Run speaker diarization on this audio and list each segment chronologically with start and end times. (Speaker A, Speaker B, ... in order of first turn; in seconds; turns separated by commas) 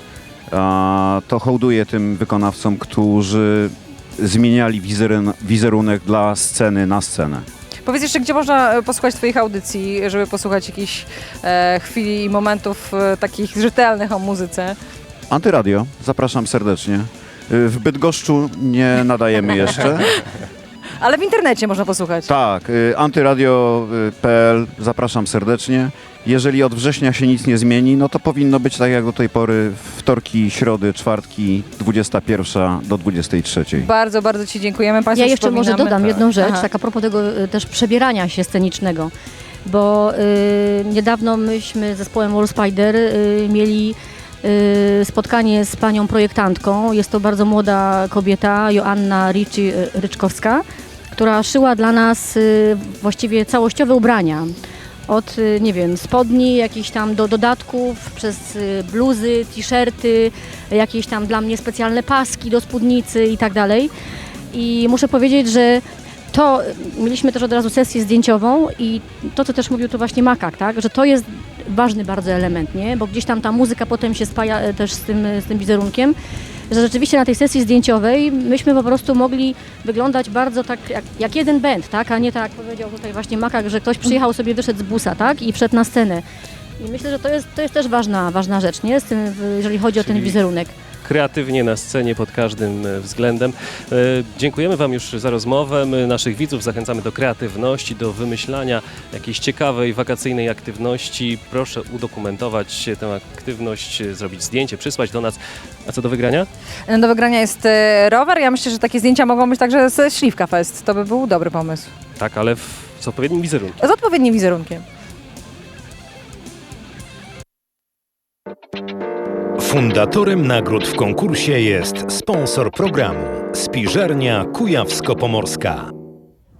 Speaker A: 0.5-7.5, Speaker B: 7.8-14.8, Speaker A: 15.3-20.1, Speaker B: 21.0-22.3, Speaker A: 22.3-33.9, Speaker B: 33.8-36.7, Speaker C: 35.1-39.1, Speaker C: 39.6-54.5, Speaker C: 55.1-63.9, Speaker C: 64.5-76.2, Speaker C: 76.7-86.2, Speaker C: 86.8-90.7, Speaker D: 90.0-90.4, Speaker D: 91.0-106.5, Speaker B: 106.9-111.9, Speaker D: 112.2-113.8, Speaker B: 113.8-114.8, Speaker E: 119.6-125.9